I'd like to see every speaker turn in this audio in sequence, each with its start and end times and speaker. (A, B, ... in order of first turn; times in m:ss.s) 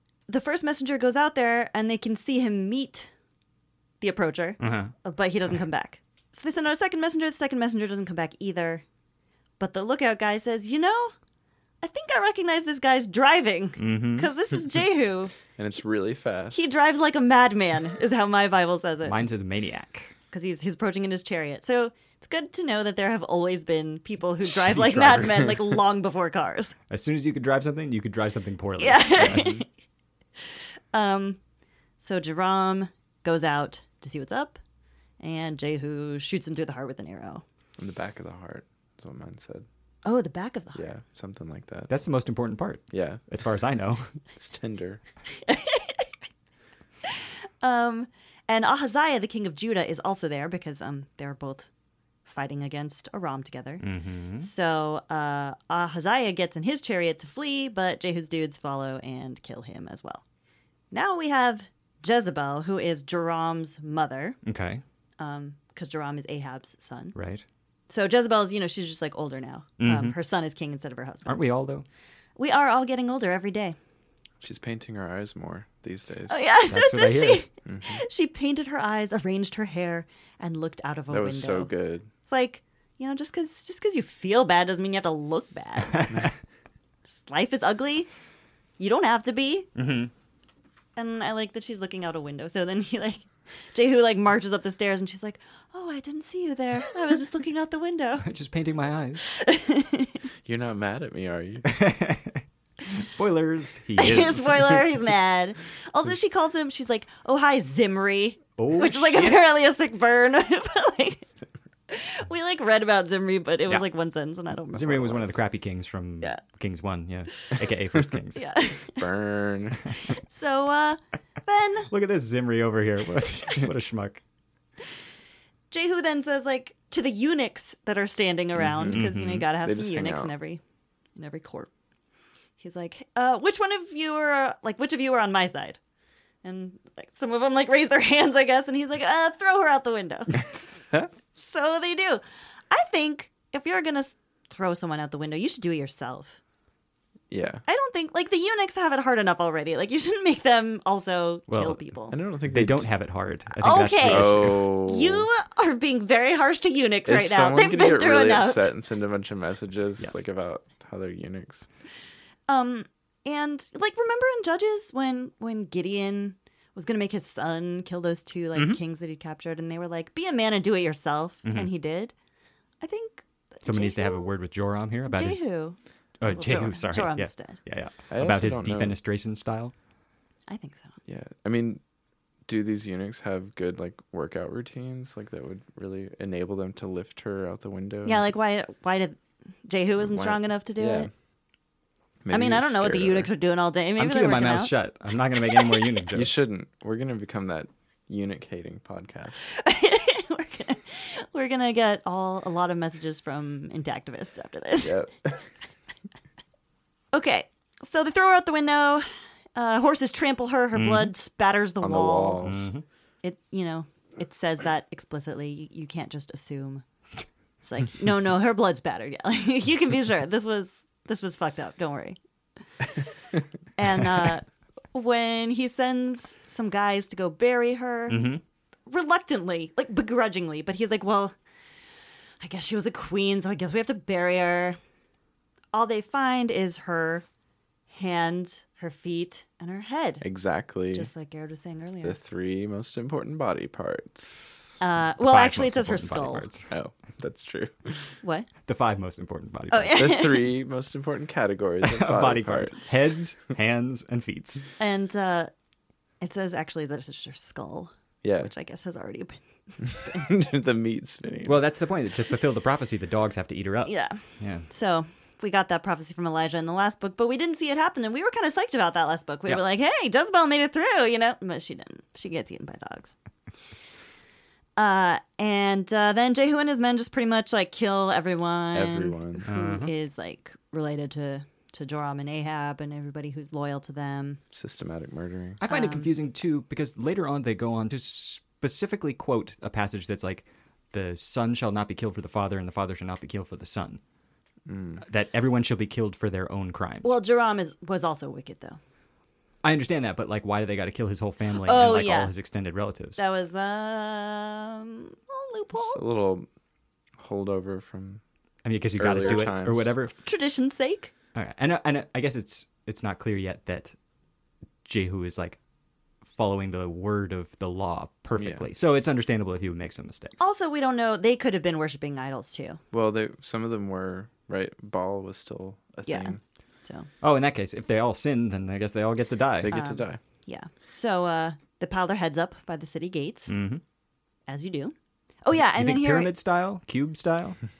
0:00.3-0:03.1 A
0:04.0-0:08.8 A
0:04.6-0:04.9 B
0:09.6-0:11.1 A
0:11.8-0:15.3 A
0:13.8-0:14.3 B
0:15.6-0:16.6 C
0:16.5-0:19.2 A
0:19.0-0:20.1 B
0:20.3-0:26.8 A
0:24.4-0:25.6 B
0:26.9-0:29.6 B
0:28.8-0:29.6 A
0:29.2-0:29.6 C
0:30.9-0:31.4 A
0:32.0-0:34.6 A
0:35.2-0:37.4 A
0:37.8-0:39.6 C
0:40.0-0:40.8 A
0:40.7-0:41.9 C
0:41.9-0:44.2 B
0:42.9-0:43.2 C
0:44.3-0:45.0 C
0:45.4-0:46.1 A
0:47.0-0:51.7 A
0:52.2-0:53.8 A
0:53.8-0:54.5 B
0:54.4-1:00.2 A
1:00.9-1:04.4 A
1:04.4-1:04.8 B
1:05.2-1:07.1 A
1:07.1-1:07.4 B
1:07.9-1:11.4 A
1:09.8-1:10.1 B
1:11.2-1:11.8 B
1:12.4-1:13.8 A
1:14.4-1:16.4 C
1:16.3-1:21.7 A
1:16.7-1:17.4 B
1:17.6-1:18.0 C
1:21.1-1:22.1 C
1:22.2-1:26.3 A
1:27.0-1:28.1 A
1:28.8-1:29.7 A
1:29.8-1:30.1 B
1:31.0-1:38.3 A
1:38.2-1:39.3 B
1:39.2-1:40.2 A
1:40.4-1:41.6 C
1:41.7-1:44.9 B
1:44.0-1:51.3 A
1:48.6-1:49.4 B
1:51.9-1:55.3 A
1:54.7-1:58.4 B
1:58.3-1:59.0 A
1:58.9-1:59.9 C
1:59.9-2:01.9 A
2:01.9-2:04.2 B
2:05.7-2:10.6 A
2:08.6-2:09.0 C
2:08.9-2:09.4 B
2:09.6-2:10.3 C
2:11.2-2:11.7 A
2:12.6-2:15.8 A
2:16.4-2:26.4 A
2:27.3-2:27.6 C
2:27.6-2:32.2 A
2:31.5-2:31.8 B
2:32.1-2:32.9 C
2:32.5-2:34.7 B
2:33.6-2:38.6 A
2:34.0-2:35.3 C
2:37.0-2:41.7 C
2:42.5-2:52.1 A
2:51.4-2:51.7 B
2:52.8-2:54.3 A
2:53.6-2:55.4 B
2:55.1-2:57.6 A
2:56.2-2:59.7 B
2:58.1-2:59.0 C
3:00.5-3:01.0 A
3:01.0-3:01.8 C
3:02.5-3:08.2 C
3:08.0-3:11.1 A
3:10.0-3:11.1 C
3:12.2-3:13.3 C
3:12.3-3:14.7 A
3:14.0-3:16.4 B
3:15.5-3:15.8 A
3:16.1-3:19.4 C
3:19.4-3:25.0 A
3:24.8-3:25.4 C
3:27.1-3:32.5 A
3:30.7-3:31.1 B
3:31.8-3:32.7 C
3:32.4-3:32.8 B
3:33.2-3:36.8 A
3:37.6-3:42.2 A
3:43.8-3:48.3 A
3:48.1-3:48.4 B
3:48.9-3:51.3 A
3:52.4-3:54.8 A
3:55.7-3:57.2 A
3:57.9-4:00.2 A
4:00.2-4:01.1 C
4:00.9-4:02.2 A
4:02.0-4:04.8 C
4:04.8-4:06.5 A
4:05.2-4:06.7 B
4:06.7-4:08.1 C
4:08.2-4:08.5 A
4:08.6-4:10.1 B
4:09.7-4:10.5 A
4:09.9-4:13.2 C
4:11.8-4:14.7 B
4:14.8-4:15.5 A
4:16.2-4:19.4 A
4:18.2-4:18.5 C
4:20.0-4:20.2 A
4:20.0-4:21.6 C
4:21.4-4:24.7 B
4:23.8-4:33.1 A
4:34.8-4:44.4 A
4:38.7-4:39.5 C
4:39.5-4:39.9 B
4:44.5-4:45.6 C
4:45.6-4:54.0 B
4:45.7-4:46.1 A
4:54.6-4:55.0 C
4:55.0-4:57.2 B
4:57.0-4:58.8 A
4:59.6-5:03.2 B
5:01.6-5:02.3 A
5:03.2-5:06.0 A
5:05.7-5:06.5 C
5:07.2-5:08.2 C
5:08.6-5:10.1 B
5:09.0-5:09.9 C
5:09.0-5:09.4 A
5:10.2-5:11.1 A
5:11.3-5:13.9 B
5:14.8-5:15.6 B
5:16.3-5:20.4 B
5:18.4-5:18.6 C
5:20.4-5:22.8 A
5:22.9-5:26.4 C
5:26.0-5:27.1 A
5:27.2-5:29.8 B
5:29.6-5:30.2 C
5:29.7-5:33.5 A
5:33.5-5:33.8 B
5:34.5-5:36.3 A
5:35.5-5:37.6 B